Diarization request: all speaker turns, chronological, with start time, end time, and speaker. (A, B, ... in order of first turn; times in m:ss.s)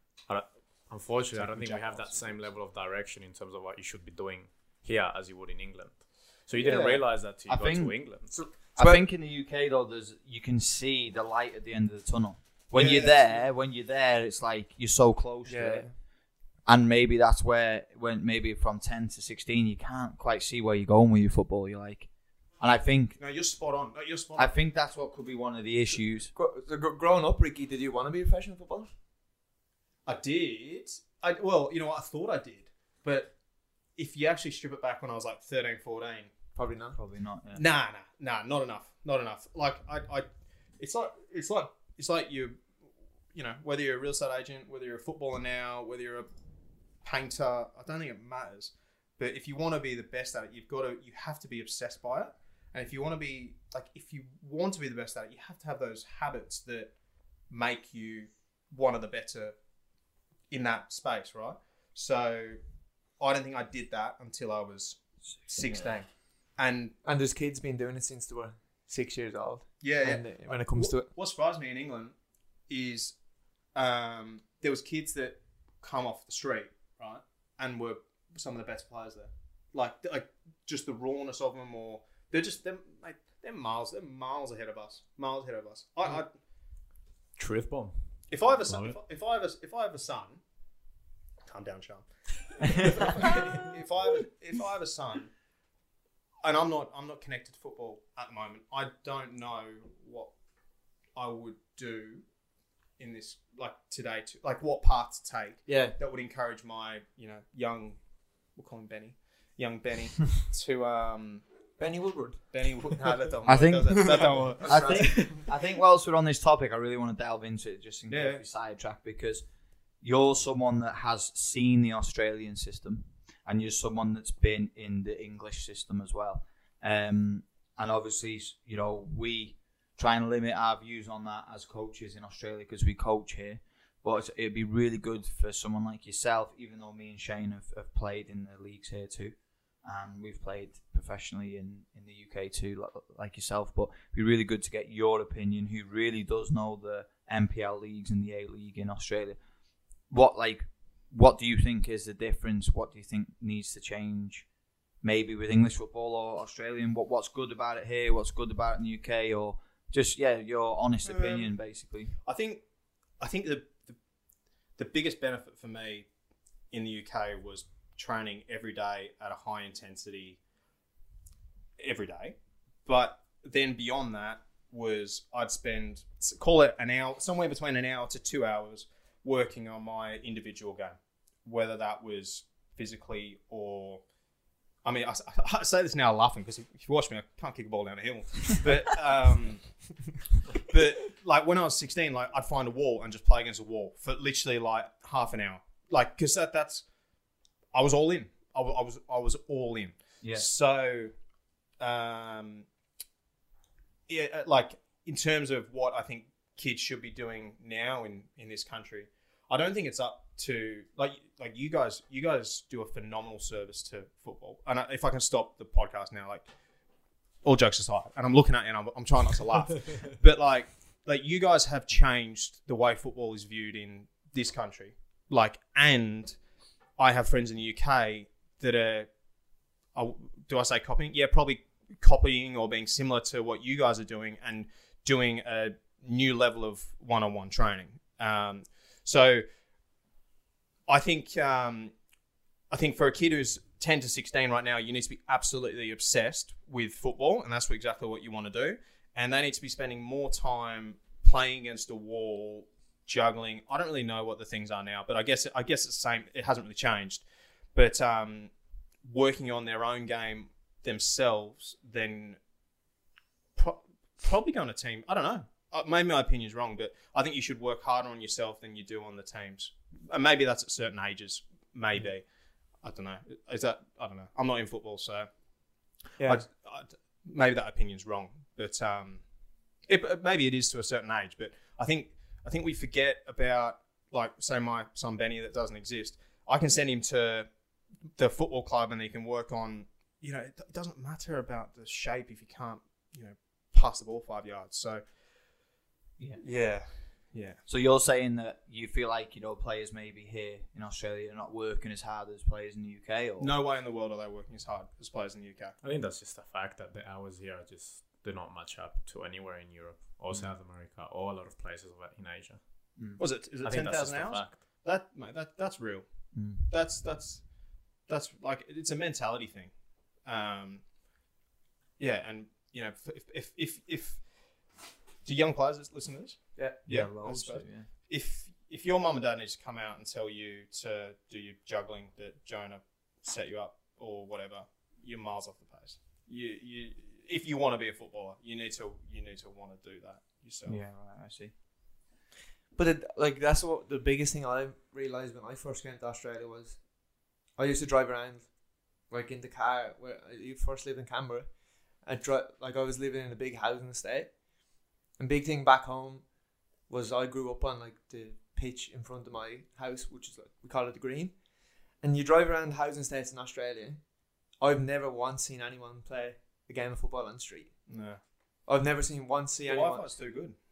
0:00.2-0:08.3 A
0:01.3-0:02.4 B
0:06.6-0:07.0 C
0:07.4-0:08.1 D
0:08.3-0:09.0 C
0:08.8-0:15.9 D
0:12.7-0:13.4 B
0:15.5-0:15.9 C
0:16.7-0:22.1 D
0:22.6-0:23.2 D
0:23.2-0:24.5 B
0:24.4-0:26.3 D
0:26.4-0:28.9 C
0:30.1-0:33.3 B
0:34.0-0:36.3 B
0:36.6-0:37.0 C
0:37.0-0:37.6 D
0:37.5-0:40.3 B
0:40.8-0:42.6 B
0:43.3-0:46.3 B
0:47.0-0:56.9 B
0:57.5-0:59.6 B
1:00.5-1:02.6 B
1:03.2-1:06.9 B
1:07.0-1:11.1 C
1:09.8-1:12.2 B
1:12.7-1:13.2 B
1:13.7-1:26.3 B
1:27.4-1:29.0 A
1:28.3-1:30.4 B
1:31.5-1:35.3 B
1:36.4-1:40.3 B
1:41.2-1:42.2 B
1:43.0-1:48.0 B
1:45.7-1:46.0 C
1:48.6-1:51.4 B
1:51.8-1:52.5 C
1:52.5-1:55.4 B
1:53.5-1:59.4 D
1:54.6-1:55.4 C
1:58.1-1:58.4 B
2:00.0-2:29.4 D
2:30.1-2:34.5 D
2:35.0-2:42.1 D
2:41.0-2:41.5 B
2:42.2-2:42.6 B
2:43.2-2:44.0 B
2:44.8-2:46.1 B
2:46.7-2:50.4 B
2:51.8-3:04.0 B
3:04.8-3:09.8 B
3:10.6-3:16.8 B
3:17.7-3:21.1 B
3:20.2-3:20.5 D
3:21.8-3:22.7 B
3:24.1-3:36.5 B
3:37.4-3:46.4 B
3:47.0-3:49.1 B
3:50.0-3:59.4 B
4:00.9-4:01.9 B
4:02.7-4:18.5 B
4:19.0-4:22.4 B
4:23.6-4:32.2 B
4:32.8-4:35.3 B
4:36.2-4:36.4 C
4:36.2-4:39.2 B
4:39.9-4:47.5 B
4:48.2-4:55.0 B
4:56.4-4:57.6 B
4:57.7-5:03.5 D
5:03.4-5:05.8 B
5:05.8-5:12.6 A
5:13.2-5:17.5 B
5:13.6-5:14.6 A
5:16.3-5:16.7 D
5:18.1-5:19.7 B
5:20.2-5:20.8 B
5:22.0-5:24.2 B
5:25.2-5:40.8 B
5:26.9-5:27.9 D
5:40.7-5:41.5 D
5:42.8-5:54.4 C
5:55.2-5:56.3 C
5:56.9-6:01.4 C
6:02.0-6:07.9 C
6:07.9-6:08.2 B
6:08.7-6:10.2 C
6:09.7-6:10.6 B